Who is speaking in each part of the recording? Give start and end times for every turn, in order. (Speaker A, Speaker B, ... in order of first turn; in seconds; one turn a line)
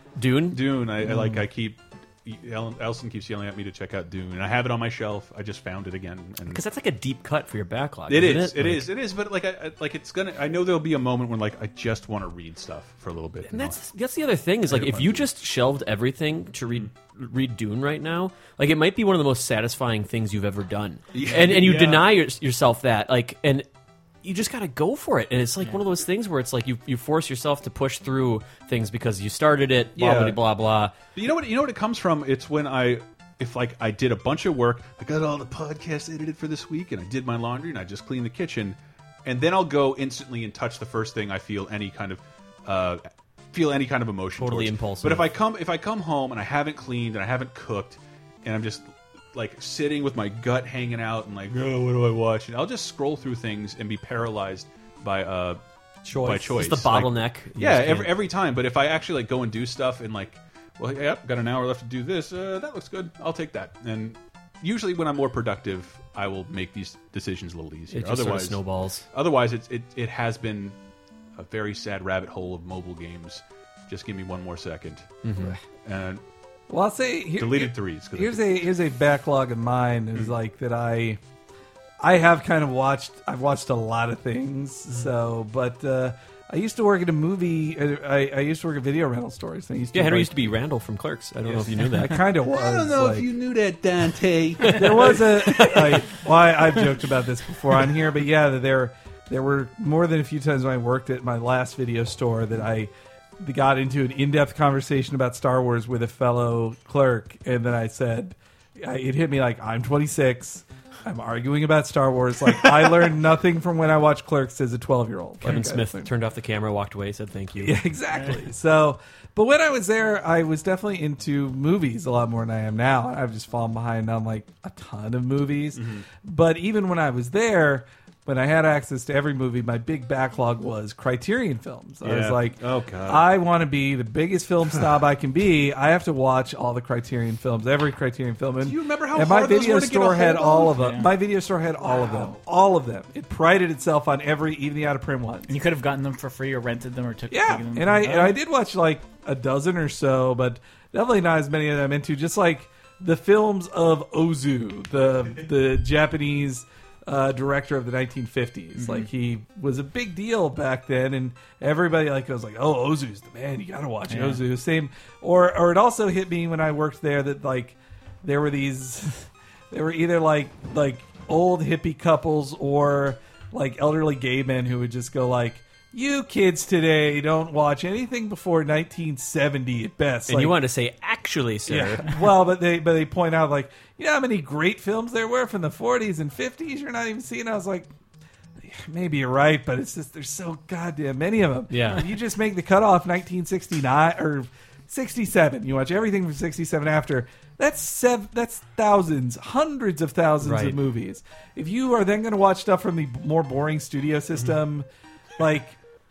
Speaker A: 0.1-0.6
Speaker B: 0.5-6.6
Speaker A: 6.5-8.9
Speaker B: 8.1-13.8
Speaker A: 13.5-23.7
Speaker B: 14.7-15.3
Speaker B: 21.1-22.1
Speaker A: 24.2-30.9
Speaker B: 29.9-30.4
Speaker B: 31.1-55.6
Speaker A: 44.4-45.3
Speaker A: 56.1-58.1
Speaker B: 56.1-70.8
Speaker A: 67.9-69.0
Speaker B: 71.4-75.2
Speaker A: 75.2-75.5
Speaker B: 75.8-76.2
Speaker C: 76.7-81.2
Speaker B: 77.4-78.6
Speaker C: 82.0-90.5
Speaker A: 89.9-92.2
Speaker C: 91.8-93.3
Speaker B: 92.4-96.0
Speaker C: 94.7-116.1
Speaker A: 115.4-117.8
Speaker C: 117.6-145.5
Speaker B: 125.7-126.0
Speaker B: 132.0-133.3
Speaker B: 138.6-140.7
Speaker D: 140.7-141.1
Speaker B: 142.0-142.3
Speaker D: 145.5-148.3
Speaker C: 147.3-180.6
Speaker D: 164.1-164.4
Speaker A: 180.3-182.1
Speaker C: 181.7-187.9
Speaker C: 188.6-204.8
Speaker A: 191.7-192.0
Speaker A: 200.4-200.8
Speaker C: 205.4-205.8